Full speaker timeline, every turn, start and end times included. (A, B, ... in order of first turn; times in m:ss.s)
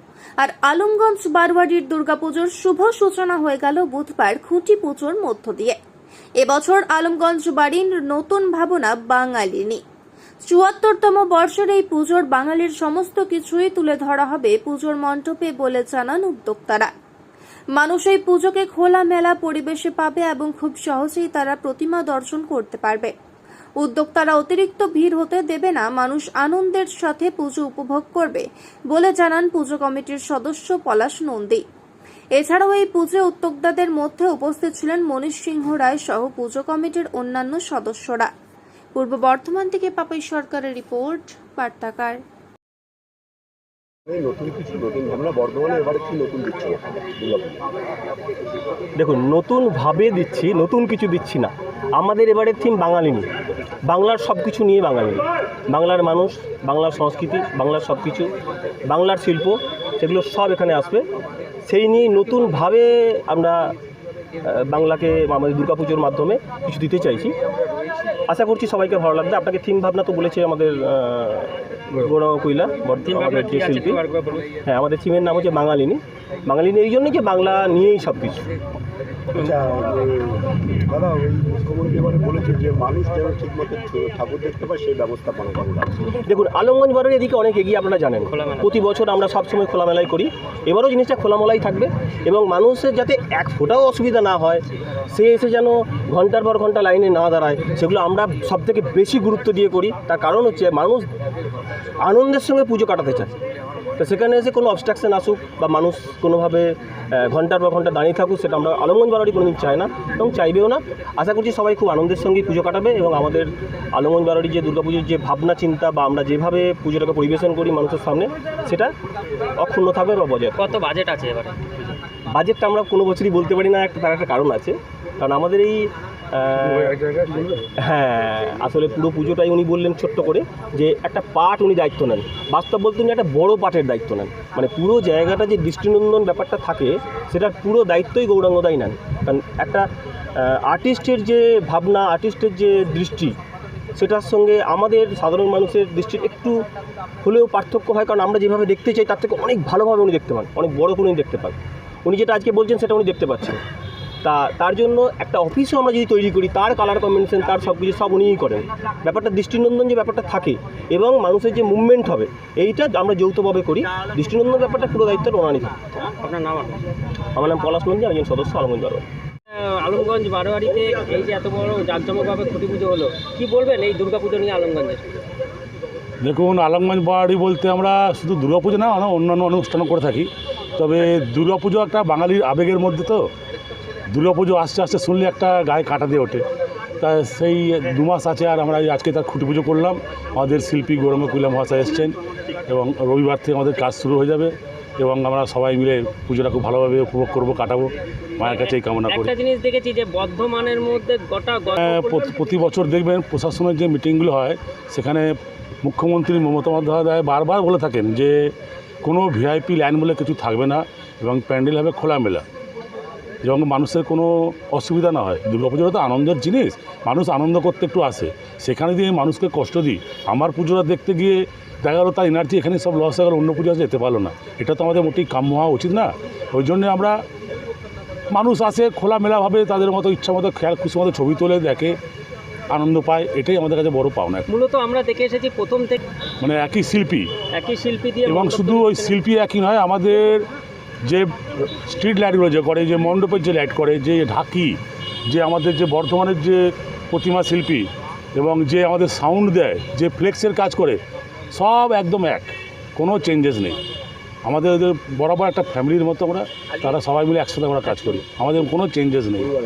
0:00.4-0:05.8 A
0:06.4-0:09.8 A
0:10.5-0:16.9 A
0:17.7-0:23.1 A
0:23.8-0:31.6 A
0:32.4-0:38.3 A
0:38.9-0:42.2 A
0:44.1-0:47.6 B
0:49.0-0:53.3 C
0:53.8-0:58.3 C
0:58.9-1:01.1 C
1:01.6-1:03.7 C
1:04.4-1:07.3 C
1:08.3-1:14.0 C
1:13.0-1:14.5 D
1:14.6-1:18.4 C
1:19.4-1:20.3 B
1:20.9-1:26.0 B
1:26.2-1:41.1 C
1:28.4-1:28.6 D
1:42.0-1:43.4 C
1:44.0-1:58.9 C
1:59.6-2:00.6 C
2:00.6-2:01.6 D
2:02.3-2:07.0 C
2:06.6-2:07.6 E
2:07.8-2:23.3 C
2:24.0-2:26.6 C
2:27.2-2:33.6 C
2:34.2-2:45.7 C
2:46.2-2:46.8 D
2:47.3-2:49.0 C
2:49.5-2:55.2 D
2:56.2-3:03.2 E
3:04.1-3:06.4 E
3:07.0-3:12.2 E
3:12.7-3:19.3 E
3:18.4-3:22.3 D
3:21.8-3:25.3 E
3:25.8-3:28.5 E
3:29.0-3:32.4 E
3:33.4-3:47.2 E
3:48.3-3:52.0 E
3:52.7-3:54.4 E
3:54.5-3:56.0 D
3:56.4-3:57.3 E
3:57.5-3:59.2 D
3:58.2-4:00.4 E
4:01.0-4:06.6 E
4:07.1-4:11.0 E
4:11.5-4:13.8 E
4:14.4-4:19.5 E